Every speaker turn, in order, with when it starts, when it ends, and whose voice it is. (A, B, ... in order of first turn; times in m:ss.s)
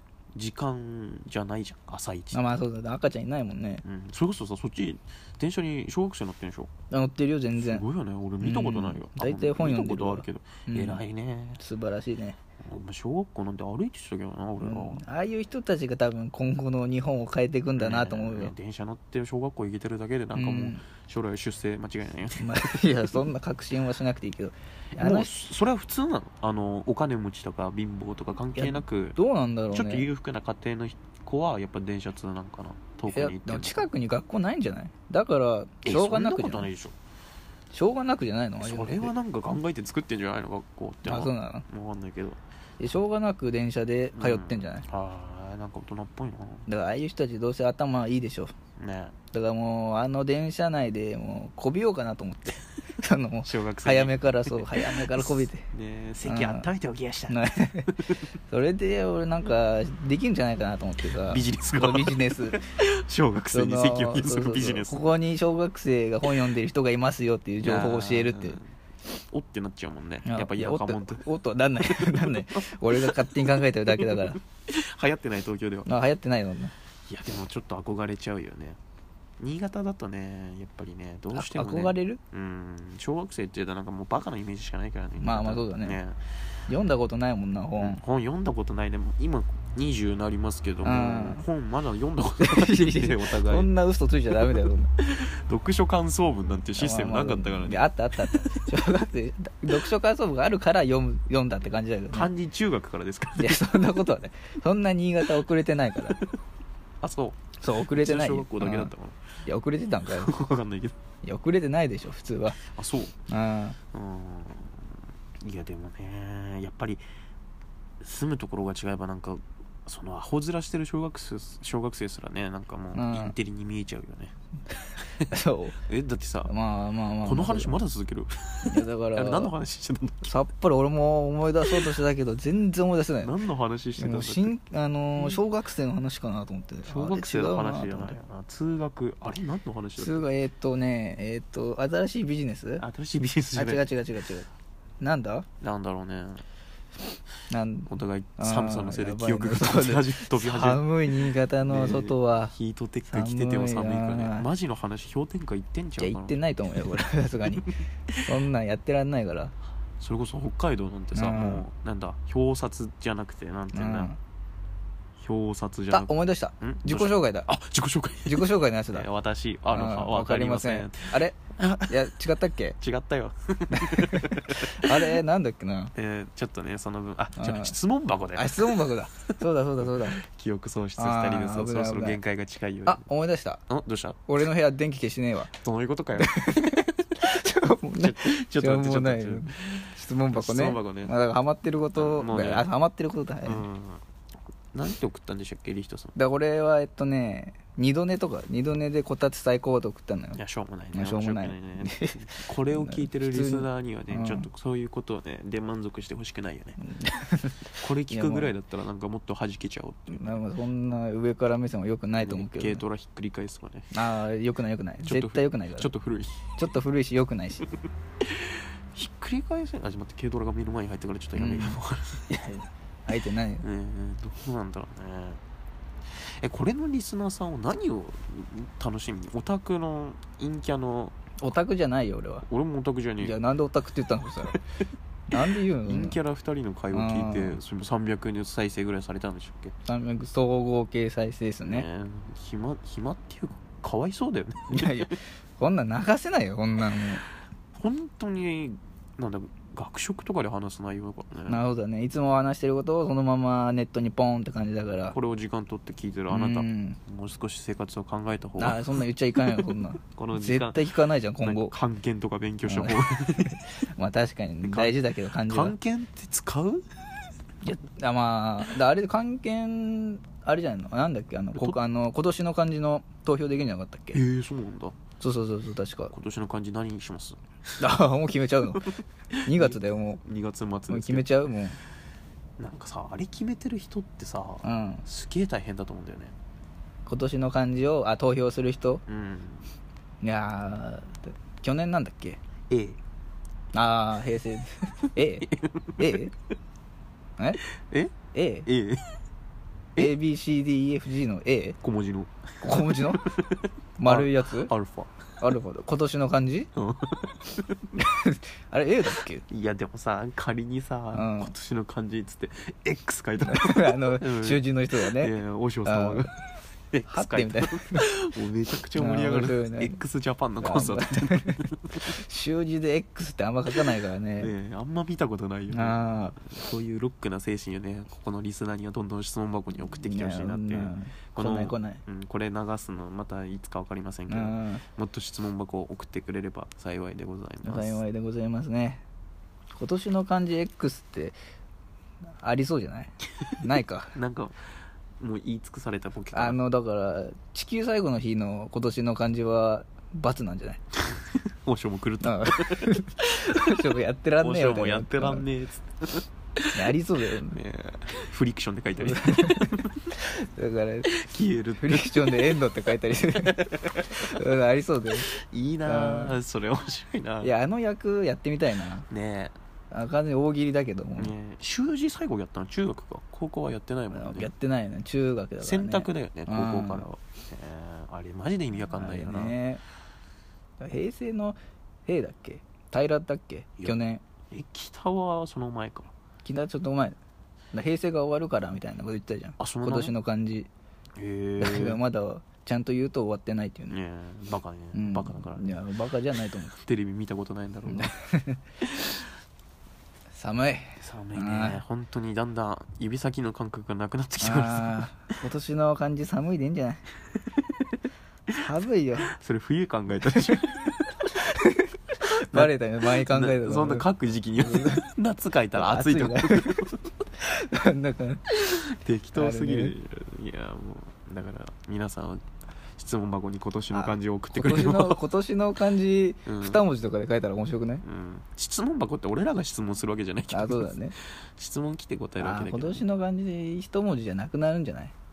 0:00.3-0:02.4 A
0:02.3-0:03.8 B
0:03.8-0:06.7 A
0:06.9-0:07.8 B
0:07.6-0:11.6 A
0:08.4-0:11.0 B
0:11.6-0:12.4 B
0:12.6-0:15.0 A
0:14.6-0:18.5 B
0:17.8-0:23.0 A
0:20.3-0:20.8 B
0:22.4-0:25.3 B
0:25.0-0:29.2 A
0:28.5-0:30.1 B
0:29.7-0:33.9 A
0:33.1-0:36.7 B
0:35.8-0:36.9 A
0:37.7-0:39.1 B
0:38.6-0:42.4 A
0:41.0-0:41.6 B
0:42.8-0:44.8 B
0:44.1-0:46.7 A
0:46.7-0:48.5 B
0:48.8-0:49.1 A
0:49.3-0:55.7 B
0:53.4-0:58.2 A
0:56.2-0:56.7 B
0:57.3-0:58.0 B
0:58.5-1:02.6 B
1:01.2-1:05.0 A
1:03.5-1:08.6 B
1:07.6-1:11.2 A
1:10.2-1:14.4 B
1:11.8-1:15.9 A
1:15.8-1:16.7 B
1:17.1-1:18.8 A
1:19.4-1:26.2 A
1:21.3-1:22.2 B
1:25.2-1:26.0 B
1:26.7-1:28.0 B
1:27.8-1:33.7 A
1:30.8-1:31.4 B
1:32.4-1:34.9 B
1:35.0-1:38.9 A
1:36.8-1:42.3 B
1:42.1-1:43.8 A
1:43.4-1:46.2 B
1:47.0-1:49.2 A
1:47.6-1:48.9 B
1:49.4-1:50.3 B
1:50.1-1:51.0 A
1:51.2-1:52.6 B
1:52.6-1:53.2 A
1:53.3-1:53.8 B
1:53.9-1:57.0 A
1:58.0-2:04.3 A
2:02.9-2:03.3 B
2:04.7-2:05.8 B
2:05.8-2:06.5 A
2:06.4-2:07.8 B
2:07.2-2:10.3 A
2:08.7-2:09.5 B
2:10.2-2:13.3 B
2:13.2-2:14.5 A
2:14.0-2:18.2 B
2:16.8-2:20.3 A
2:20.0-2:22.8 B
2:22.8-2:23.9 A
2:23.5-2:24.5 B
2:25.0-2:25.5 B
2:25.6-2:26.4 A
2:27.5-2:34.5 B
2:27.9-2:37.7 A
2:36.0-2:39.5 B
2:40.0-2:44.1 A
2:41.1-2:41.6 B
2:43.7-2:44.2 B
2:45.2-2:51.9 A
2:45.9-2:47.5 B
2:48.2-2:49.1 B
2:49.7-2:52.8 B
2:52.8-2:55.1 A
2:53.7-2:55.9 B
2:55.9-2:58.7 A
2:57.4-2:57.7 B
2:58.3-3:00.2 B
2:59.8-3:03.0 A
3:01.0-3:02.2 B
3:02.8-3:03.6 B
3:03.7-3:04.3 A
3:04.3-3:05.5 B
3:05.6-3:07.0 A
3:06.2-3:13.6 B
3:08.0-3:09.8 A
3:10.3-3:11.1 A
3:11.9-3:12.7 A
3:13.4-3:14.0 A
3:14.7-3:16.1 A
3:16.1-3:20.4 B
3:20.3-3:26.8 A
3:20.9-3:24.5 B
3:26.8-3:28.5 B
3:27.8-3:30.4 A
3:30.1-3:32.8 B
3:32.2-3:33.9 A
3:33.9-3:35.9 B
3:35.0-3:36.6 A
3:36.6-3:37.7 B
3:38.2-3:42.3 A
3:41.4-3:43.6 B
3:43.6-3:45.4 A
3:46.1-3:51.1 A
3:51.4-3:52.4 B
3:52.4-3:53.4 A
3:53.2-3:54.6 B
3:55.3-3:56.2 B
3:55.5-3:59.7 A
3:56.9-3:57.6 B
3:59.8-4:01.8 B
4:01.6-4:05.2 A
4:04.7-4:07.2 B
4:07.7-4:11.6 A
4:11.5-4:15.2 B
4:15.1-4:18.8 A
4:16.3-4:17.0 B
4:18.6-4:21.7 B
4:19.4-4:23.7 A
4:22.6-4:23.0 B
4:23.5-4:25.7 B
4:24.6-4:26.8 A
4:27.6-4:34.2 B
4:34.1-4:35.0 A
4:35.2-4:36.1 B
4:36.1-4:37.4 A
4:37.8-4:38.9 B
4:38.7-4:41.3 A
4:39.4-4:40.2 B
4:40.9-4:41.8 B
4:42.6-4:46.3 A
4:44.6-4:45.0 B
4:47.0-4:49.0 B
4:49.1-4:49.7 A
4:50.2-4:52.4 B
4:52.7-4:53.0 A
4:53.7-4:56.3 B
4:55.4-4:56.2 A
4:57.9-4:58.1 A
4:58.3-4:58.7 B
4:58.6-4:59.1 A
5:00.0-5:01.8 B
5:01.8-5:05.5 A
5:02.6-5:03.2 B
5:04.0-5:04.7 B
5:05.4-5:06.7 B
5:06.8-5:07.9 A
5:08.0-5:09.4 B
5:09.5-5:16.3 A
5:11.1-5:11.5 B
5:13.4-5:16.3 B
5:16.9-5:22.1 A
5:17.1-5:18.1 B
5:19.0-5:20.0 B
5:20.6-5:24.5 B
5:24.4-5:38.0 A
5:25.7-5:26.4 B
5:29.9-5:32.0 B
5:34.3-5:34.8 B
5:37.6-5:39.0 B
5:39.7-5:41.4 B
5:42.4-5:44.1 B
5:44.1-5:44.6 A
5:45.2-5:46.6 A
5:46.3-5:50.8 B
5:51.2-5:52.9 A
5:52.2-5:55.4 B
5:54.4-6:00.0 A
5:56.7-5:57.6 B
5:59.0-6:01.1 B
6:01.1-6:04.4 A
6:01.8-6:05.3 B
6:05.3-6:07.5 A
6:05.8-6:06.4 B
6:07.4-6:09.1 B
6:09.1-6:09.6 A
6:09.9-6:11.3 B
6:11.2-6:14.5 A
6:14.1-6:17.0 B
6:15.6-6:19.6 A
6:18.9-6:19.8 B
6:20.8-6:24.2 B
6:24.5-6:26.1 A
6:26.4-6:27.2 B
6:27.7-6:30.7 B
6:29.6-6:30.1 A
6:31.2-6:32.0 A
6:31.6-6:34.0 B
6:33.9-6:35.8 A
6:34.9-6:36.7 B
6:36.7-6:38.1 A
6:37.9-6:38.6 B
6:40.3-6:41.8 B
6:41.0-6:45.0 A
6:44.4-6:47.0 B
6:48.5-6:49.3 B
6:49.3-6:51.3 A
6:51.3-6:54.1 B
6:52.5-6:57.0 A
6:54.6-6:55.0 B
6:55.7-6:56.8 B
6:57.4-6:58.4 B
6:58.5-7:02.4 A
6:59.3-6:59.9 B
7:03.0-7:05.2 A
7:03.9-7:08.0 B
7:06.4-7:06.8 A
7:08.0-7:13.0 A
7:10.5-7:11.1 B
7:12.4-7:15.1 B